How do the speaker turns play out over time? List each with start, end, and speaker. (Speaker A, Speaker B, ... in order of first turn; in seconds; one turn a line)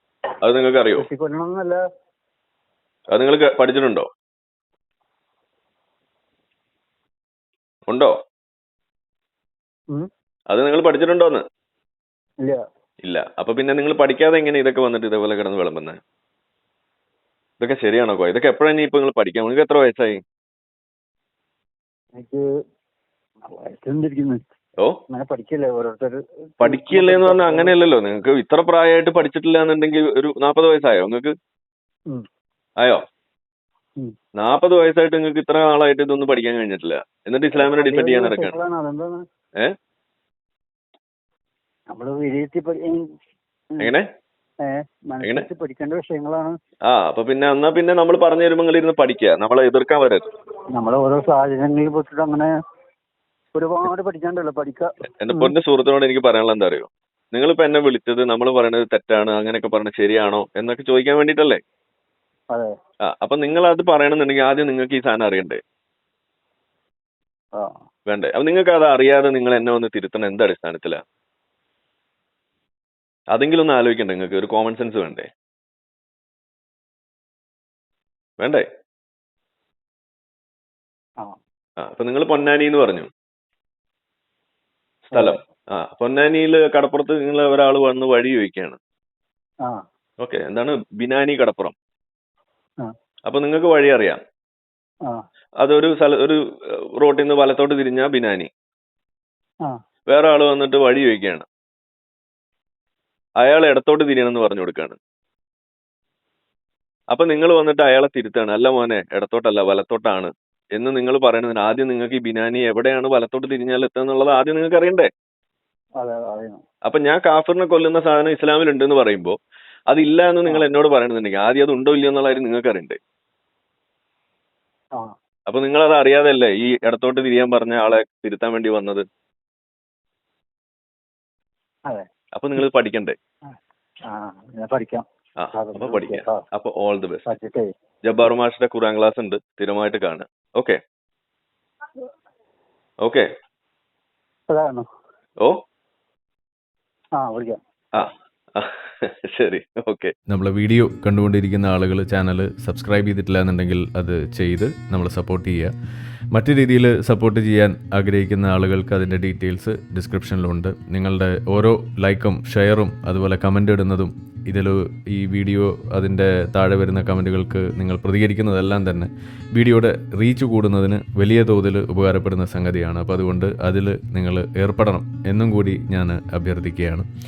Speaker A: 0.4-1.1
Speaker B: 1.0-1.8
Speaker A: 3.1-4.1
Speaker A: 7.9-8.2
Speaker A: 10.5-11.4
Speaker A: 13.0-16.0
Speaker A: 17.6-20.2
Speaker B: 22.2-22.4
Speaker B: 23.5-24.4
Speaker B: 25.1-27.7
Speaker A: 26.6-31.3
Speaker A: 34.4-38.6
Speaker B: 37.5-39.2
Speaker B: 41.9-43.1
Speaker B: 44.6-46.6
Speaker A: 46.9-50.2
Speaker B: 50.8-52.5
Speaker B: 53.5-55.5
Speaker A: 55.2-61.6
Speaker A: 63.1-65.6
Speaker A: 68.1-71.0
Speaker A: 73.3-75.3
Speaker A: 78.4-78.7
Speaker A: 81.8-83.1
Speaker A: 85.1-88.8
Speaker B: 85.1-85.4
Speaker A: 90.2-91.8
Speaker A: 93.3-94.2
Speaker A: 95.6-96.4
Speaker A: 97.0-98.5
Speaker A: 100.1-101.5
Speaker A: 103.4-105.0
Speaker A: 107.1-115.1
Speaker B: 116.0-116.6
Speaker A: 116.9-119.3
Speaker A: 119.9-123.0
Speaker A: 125.5-129.1
Speaker A: 132.3-133.2
Speaker B: 134.1-136.4
Speaker A: 135.4-137.2
Speaker B: 137.3-137.7
Speaker A: 138.1-140.8
Speaker B: 144.5-144.9
Speaker B: 147.2-147.6
Speaker A: 148.0-150.1
Speaker C: 150.3-155.7
Speaker C: 156.3-177.1